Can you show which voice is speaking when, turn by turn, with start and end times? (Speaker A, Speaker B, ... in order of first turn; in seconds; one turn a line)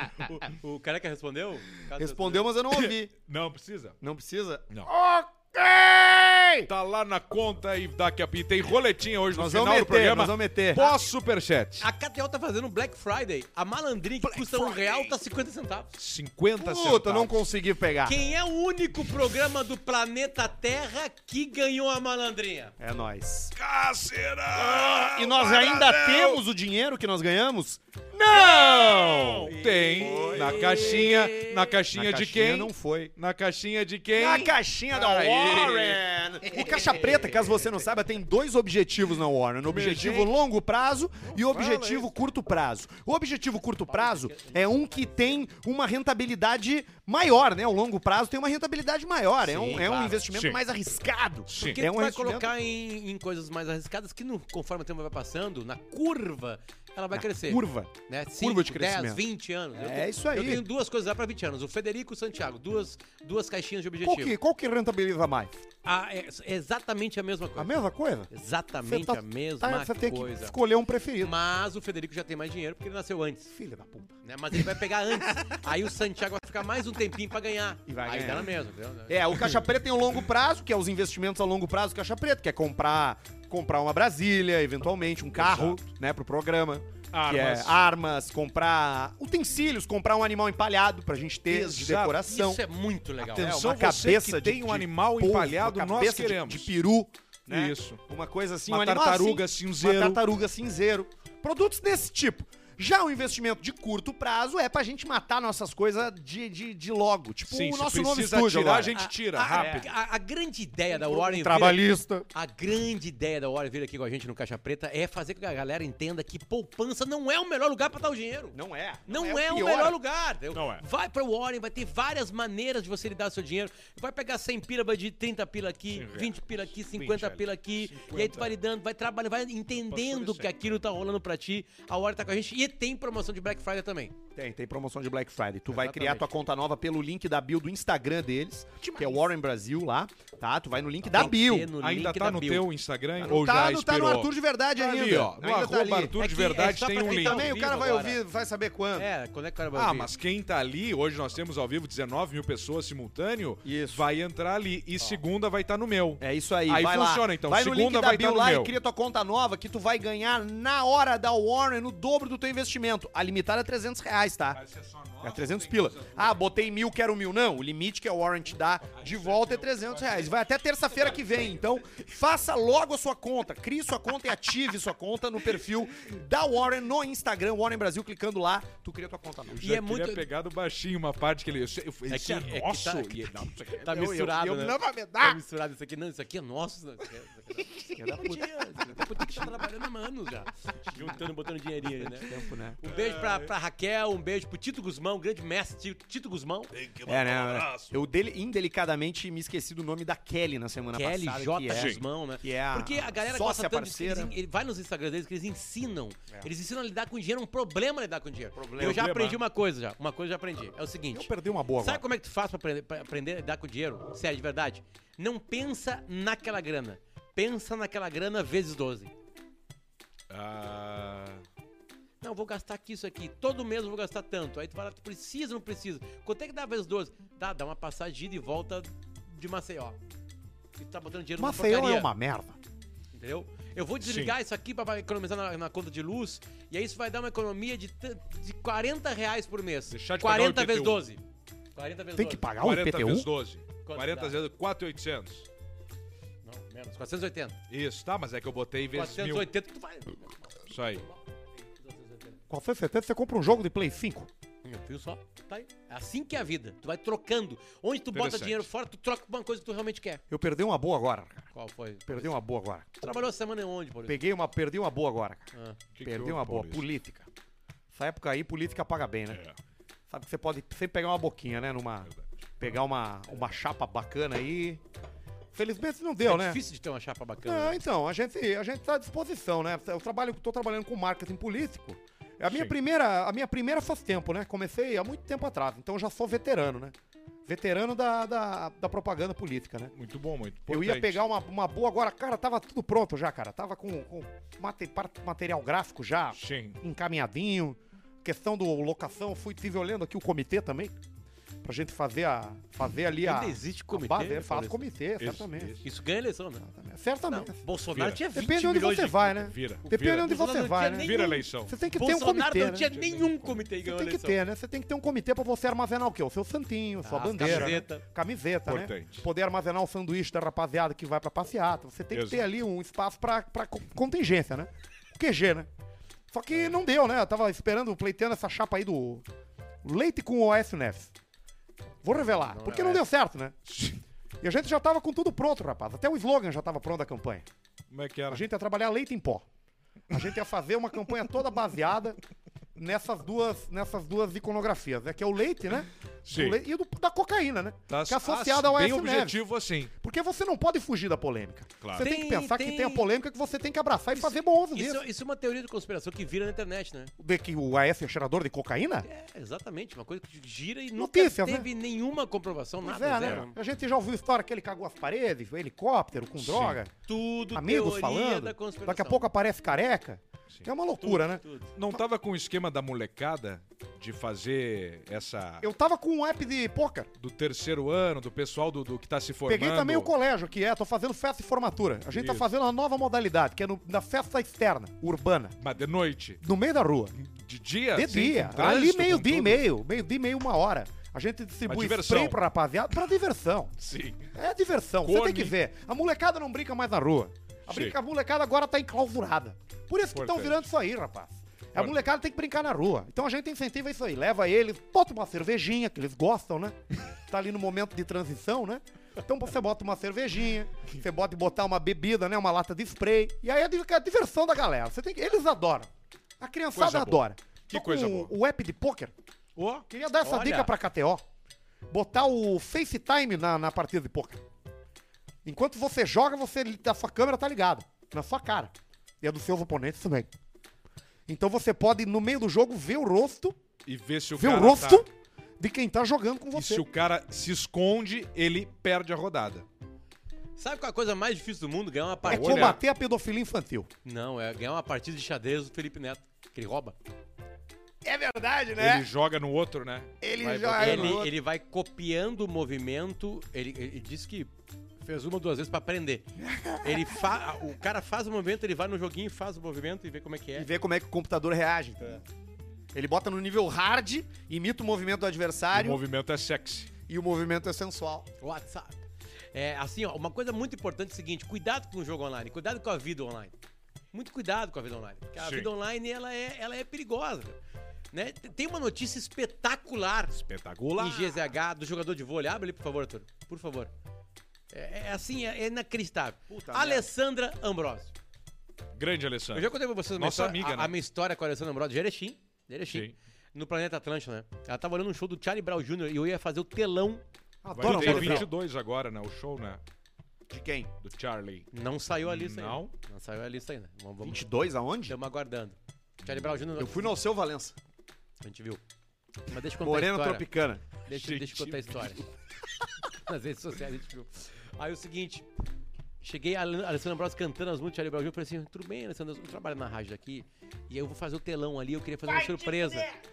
Speaker A: 0.2-2.5
Speaker B: 1.9-3.1
Speaker C: 2.8-4.0
Speaker B: 4.0-6.7
Speaker C: 6.7-11.9
Speaker B: 9.3-10.8
Speaker A: 10.7-11.0
Speaker A: 11.8-15.9
Speaker C: 14.2-15.1
Speaker C: 16.0-17.4
Speaker B: 16.6-18.2
Speaker A: 18.0-22.8
Speaker B: 22.8-23.5
Speaker C: 23.6-26.4
Speaker B: 24.6-31.0
Speaker C: 28.3-36.0
Speaker A: 29.5-31.8
Speaker B: 31.9-33.1
Speaker B: 34.1-52.5
Speaker C: 39.7-40.3
Speaker C: 41.3-42.1
Speaker A: 43.9-45.5
Speaker A: 49.4-50.2
Speaker C: 50.3-50.6
Speaker C: 51.5-51.8
Speaker A: 51.7-64.3
Speaker B: 57.1-59.2
Speaker B: 59.8-60.6
Speaker B: 64.0-65.6
Speaker A: 65.8-70.5
Speaker B: 67.6-68.3
Speaker B: 68.8-71.3
Speaker A: 71.2-73.5
Speaker B: 73.5-74.1
Speaker A: 74.2-79.5
Speaker B: 77.9-78.5
Speaker B: 79.1-92.6
Speaker C: 85.4-85.8
Speaker C: 87.1-87.8
Speaker C: 91.5-92.2
Speaker A: 92.3-93.6
Speaker C: 93.2-96.7
Speaker B: 93.4-109.0
Speaker C: 97.5-98.0
Speaker C: 98.7-100.2
Speaker C: 107.5-109.9
Speaker A: 108.9-111.8
Speaker B: 109.5-109.9
Speaker B: 110.9-112.3
Speaker A: 112.3-118.6
Speaker B: 118.5-120.0
Speaker A: 119.1-134.1
Speaker C: 120.5-120.8
Speaker C: 125.9-128.5
Speaker C: 129.7-130.5
Speaker B: 134.4-141.7
Speaker A: 135.7-136.3
Speaker C: 138.8-139.2
Speaker A: 141.1-142.7
Speaker C: 141.8-147.4
Speaker B: 143.2-146.2
Speaker A: 146.2-148.2
Speaker B: 147.1-149.1
Speaker A: 148.9-150.1
Speaker C: 149.7-158.7
Speaker B: 153.6-154.0
Speaker B: 156.2-164.6
Speaker C: 164.5-166.5
Speaker B: 165.2-179.7
Speaker C: 168.9-171.5
Speaker A: 179.6-180.3
Speaker C: 179.6-185.4
Speaker A: 182.1-196.7
Speaker B: 187.9-189.3
Speaker B: 192.2-192.8
Speaker C: 192.9-193.4
Speaker C: 196.7-197.9
Speaker B: 197.1-204.3
Speaker A: 200.9-219.1
Speaker C: 201.7-202.0
Speaker B: 208.6-209.1
Speaker C: 208.8-209.4
Speaker B: 211.1-212.0
Speaker C: 220.3-221.4
Speaker A: 222.2-230.0
Speaker A: 230.8-232.1
Speaker B: 231.4-232.6
Speaker A: 233.1-241.2
Speaker C: 234.0-234.3
Speaker C: 239.9-241.0
Speaker A: 241.8-242.5
Speaker B: 242.2-243.3
Speaker C: 242.6-245.5
Speaker A: 243.8-244.4
Speaker A: 246.4-247.6
Speaker C: 247.7-249.5
Speaker A: 248.9-252.4
Speaker C: 250.7-251.0
Speaker B: 252.5-254.3
Speaker A: 254.6-260.2
Speaker C: 258.1-258.7
Speaker B: 260.3-261.5
Speaker A: 261.5-262.4
Speaker B: 262.1-262.9
Speaker A: 263.0-264.2
Speaker B: 264.1-265.5
Speaker A: 265.5-265.8
Speaker C: 265.9-266.9
Speaker B: 266.0-267.3
Speaker B: 267.9-269.4
Speaker C: 269.3-269.6
Speaker B: 270.1-274.8
Speaker B: 275.5-276.6
Speaker A: 276.2-277.8
Speaker B: 277.4-286.9
Speaker B: 287.5-289.9
Speaker C: 289.9-291.2
Speaker B: 290.7-301.0
Speaker C: 296.4-296.8
Speaker B: 301.6-305.8
Speaker A: 303.2-304.9
Speaker C: 305.2-305.9
Speaker A: 305.8-306.7
Speaker B: 306.6-307.6
Speaker A: 307.3-309.3
Speaker C: 307.9-308.2
Speaker B: 308.3-312.9
Speaker C: 309.3-310.4
Speaker A: 310.2-314.4
Speaker C: 310.9-311.8
Speaker C: 312.9-313.6
Speaker B: 313.8-325.7
Speaker A: 317.0-318.0
Speaker C: 317.4-317.8
Speaker C: 318.6-319.2
Speaker C: 322.1-322.4
Speaker B: 326.3-329.2
Speaker B: 329.8-331.1
Speaker B: 332.0-333.6
Speaker A: 332.1-333.1
Speaker C: 333.7-334.0
Speaker B: 334.4-337.5
Speaker C: 337.9-338.4
Speaker B: 338.3-339.4
Speaker B: 340.1-342.2
Speaker B: 342.8-349.4
Speaker C: 346.2-346.6
Speaker C: 347.9-349.9
Speaker B: 350.0-355.0
Speaker C: 351.8-352.1
Speaker A: 352.0-353.1
Speaker A: 354.1-357.1
Speaker B: 357.2-359.1
Speaker A: 359.0-363.6
Speaker B: 361.0-361.7
Speaker B: 362.8-366.9
Speaker C: 366.4-366.8
Speaker A: 367.1-369.3
Speaker B: 367.5-372.0
Speaker A: 371.0-371.7
Speaker C: 371.8-375.7
Speaker B: 375.6-377.1
Speaker C: 377.2-380.1
Speaker B: 379.5-385.6
Speaker C: 382.1-382.4
Speaker C: 385.6-386.4
Speaker B: 386.4-387.2
Speaker C: 387.2-389.6
Speaker B: 387.9-393.8
Speaker C: 391.7-392.4
Speaker C: 393.8-394.2
Speaker B: 394.3-419.1
Speaker C: 395.1-395.6
Speaker C: 397.7-397.9
Speaker C: 400.1-400.6
Speaker C: 416.7-418.3
Speaker C: 419.6-419.9
Speaker B: 419.9-421.2
Speaker A: 420.2-420.7
Speaker B: 421.9-424.4
Speaker B: 425.4-430.3
Speaker B: 431.3-433.6
Speaker C: 433.9-435.1
Speaker B: 434.4-435.1
Speaker B: 435.6-436.9
Speaker C: 436.5-439.6
Speaker A: 440.6-442.8
Speaker B: 442.2-443.9
Speaker C: 442.3-442.8
Speaker A: 444.1-447.0
Speaker B: 448.0-449.1
Speaker C: 448.8-451.2
Speaker B: 450.2-451.3
Speaker A: 450.6-456.3
Speaker B: 456.4-457.2
Speaker A: 456.8-460.7
Speaker B: 460.6-462.2
Speaker B: 462.9-466.0
Speaker C: 465.7-466.9
Speaker B: 467.1-468.3
Speaker A: 468.4-469.0
Speaker A: 469.5-473.5
Speaker A: 474.1-477.6
Speaker C: 475.4-475.7
Speaker A: 478.1-480.4
Speaker C: 480.3-481.4
Speaker A: 481.0-483.9
Speaker A: 484.7-488.1
Speaker B: 486.5-487.1
Speaker C: 488.9-490.9
Speaker A: 489.5-497.2
Speaker C: 492.9-493.1
Speaker B: 497.6-498.5
Speaker C: 497.8-499.8
Speaker A: 497.8-498.5
Speaker B: 500.5-500.9
Speaker C: 501.0-501.7
Speaker A: 501.7-504.5
Speaker C: 502.2-502.9
Speaker B: 504.2-505.1
Speaker A: 505.1-507.2
Speaker B: 506.8-507.8
Speaker A: 508.4-508.8
Speaker A: 509.5-510.5
Speaker B: 509.8-510.9
Speaker A: 511.0-512.2
Speaker C: 511.1-512.3
Speaker A: 513.1-515.5
Speaker A: 516.2-523.1
Speaker C: 522.4-522.9